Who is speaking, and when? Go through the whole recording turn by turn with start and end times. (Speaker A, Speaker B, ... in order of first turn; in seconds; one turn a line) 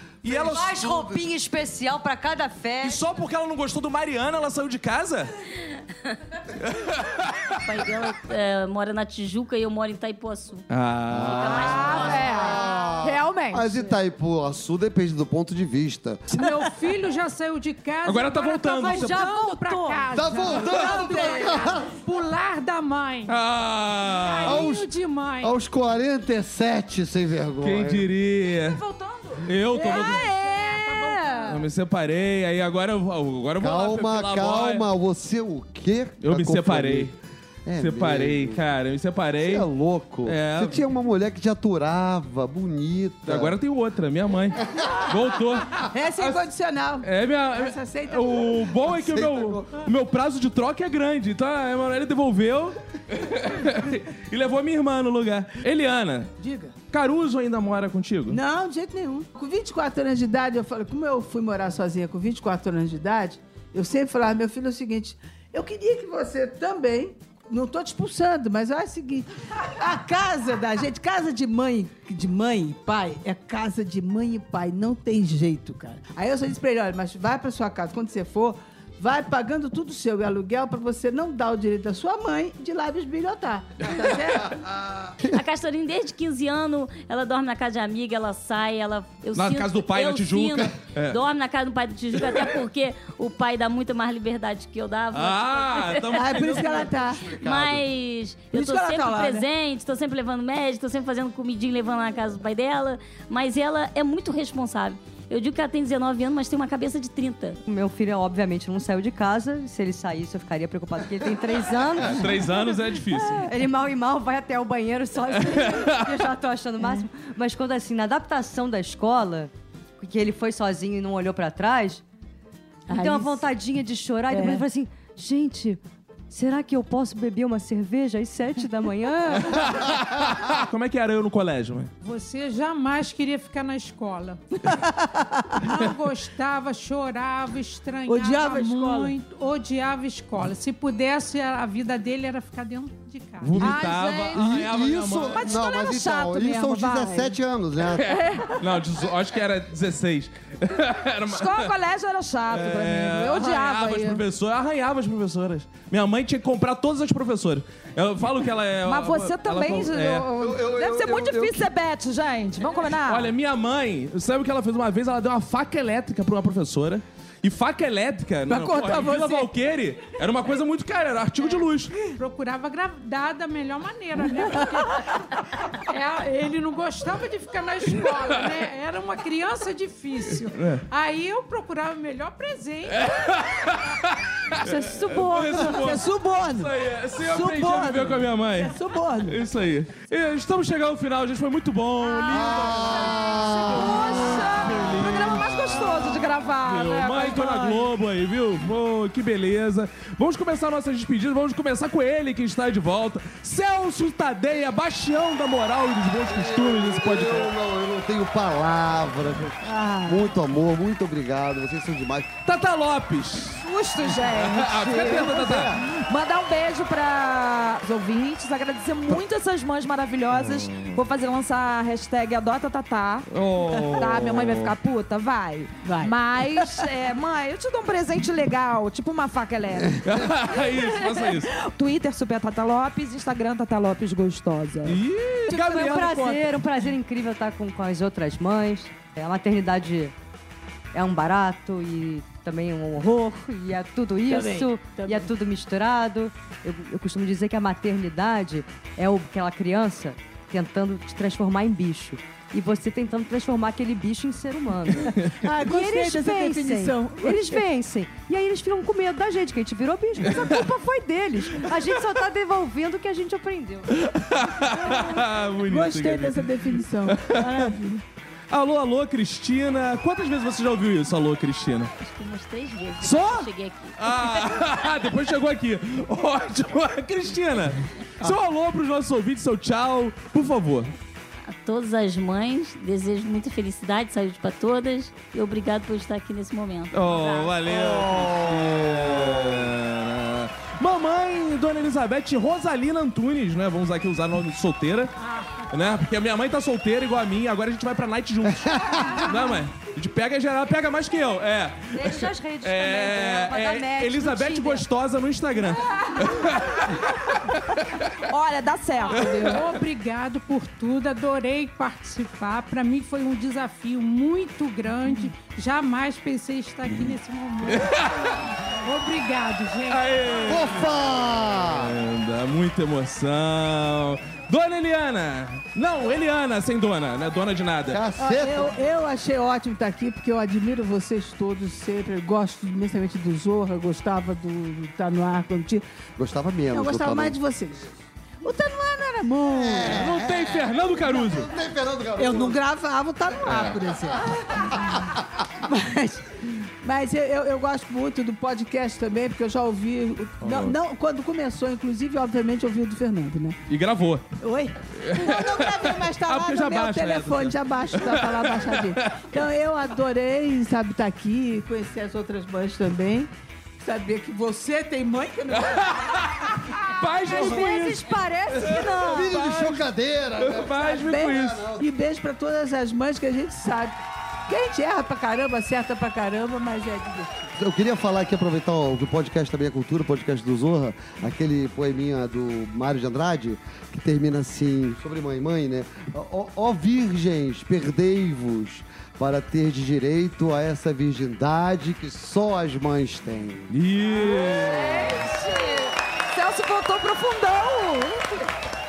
Speaker A: 0.2-0.7
Speaker B: 0.2-1.2
Speaker C: 0.4-3.0
Speaker A: 2.8-5.3
Speaker A: 6.6-7.3
Speaker D: 7.6-10.6
Speaker A: 10.7-12.1
Speaker B: 11.1-16.2
Speaker D: 11.2-12.5
Speaker E: 11.4-13.9
Speaker E: 16.3-23.3
Speaker A: 18.0-19.2
Speaker C: 18.8-20.4
Speaker B: 20.1-21.9
Speaker F: 20.9-21.5
Speaker A: 23.3-24.7
Speaker E: 24.1-25.6
Speaker B: 24.4-24.9
Speaker B: 25.4-28.1
Speaker A: 27.6-28.8
Speaker E: 28.7-31.7
Speaker A: 29.4-30.3
Speaker G: 29.8-31.5
Speaker A: 31.5-34.9
Speaker B: 33.6-37.1
Speaker A: 36.2-37.1
Speaker B: 37.6-38.6
Speaker A: 37.8-39.7
Speaker B: 39.4-43.5
Speaker A: 40.2-40.8
Speaker A: 43.2-46.4
Speaker B: 44.7-45.1
Speaker F: 45.9-49.1
Speaker A: 47.0-56.4
Speaker B: 49.0-49.9
Speaker F: 56.4-56.7
Speaker A: 56.9-58.4
Speaker F: 58.3-84.6
Speaker A: 83.9-84.2
Speaker B: 84.6-85.2
Speaker D: 85.2-96.5
Speaker A: 89.3-91.2
Speaker A: 95.1-96.9
Speaker F: 96.1-97.3
Speaker B: 96.8-97.8
Speaker D: 97.3-107.6
Speaker F: 98.5-99.5
Speaker C: 107.7-122.0
Speaker A: 112.0-113.5
Speaker A: 115.3-116.2
Speaker F: 116.8-117.1
Speaker F: 122.9-123.4
Speaker C: 122.9-129.9
Speaker F: 124.3-124.6
Speaker A: 129.3-131.9
Speaker E: 132.0-134.4
Speaker F: 134.6-135.9
Speaker E: 135.6-144.5
Speaker F: 138.1-139.1
Speaker A: 143.4-145.5
Speaker B: 143.5-148.2
Speaker G: 145.3-147.4
Speaker G: 147.9-148.6
Speaker A: 148.5-151.7
Speaker G: 151.3-154.2
Speaker A: 152.5-160.3
Speaker G: 158.8-163.3
Speaker B: 160.3-161.7
Speaker A: 163.0-172.2
Speaker F: 168.5-169.5
Speaker E: 172.2-183.1
Speaker A: 178.0-178.6
Speaker A: 180.4-180.8
Speaker A: 182.9-207.5
Speaker C: 184.6-185.9
Speaker F: 185.4-189.4
Speaker G: 192.2-197.9
Speaker B: 192.3-194.5
Speaker B: 206.3-212.3
Speaker A: 212.4-215.8
Speaker G: 213.4-223.3
Speaker A: 220.3-221.0
Speaker A: 223.3-224.7
Speaker G: 223.9-235.0
Speaker F: 225.8-226.8
Speaker A: 230.0-231.5
Speaker A: 234.8-236.4
Speaker F: 235.5-236.3
Speaker C: 235.5-240.1
Speaker G: 235.8-236.4
Speaker C: 240.9-263.9
Speaker F: 244.2-245.3
Speaker F: 255.1-257.6
Speaker A: 260.3-260.6
Speaker A: 263.9-267.7
Speaker F: 264.9-268.0
Speaker A: 268.5-271.9
Speaker D: 272.0-274.9
Speaker A: 273.0-280.9
Speaker D: 281.5-287.5
Speaker A: 286.9-295.1
Speaker B: 287.6-289.7
Speaker E: 295.2-295.7
Speaker A: 295.7-308.0
Speaker B: 298.5-299.3
Speaker C: 301.9-304.8
Speaker G: 308.3-309.6
Speaker E: 309.1-320.6
Speaker A: 309.1-309.8
Speaker A: 316.9-318.5
Speaker A: 319.9-328.0
Speaker B: 320.5-322.0
Speaker B: 327.9-328.7
Speaker F: 328.2-335.8
Speaker B: 336.2-337.9
Speaker F: 336.7-337.9
Speaker F: 338.4-340.1
Speaker B: 339.5-342.6
Speaker A: 339.8-341.5
Speaker F: 342.2-345.1
Speaker A: 343.4-343.8
Speaker B: 344.5-345.2
Speaker F: 345.6-353.6
Speaker A: 350.4-350.8
Speaker A: 353.7-354.3
Speaker F: 354.4-366.4
Speaker A: 355.0-359.1
Speaker A: 365.5-369.9
Speaker C: 367.0-369.5
Speaker B: 369.1-371.9
Speaker A: 370.4-371.6
Speaker F: 370.8-377.5
Speaker B: 377.6-393.8
Speaker A: 393.7-395.2
Speaker G: 394.1-398.5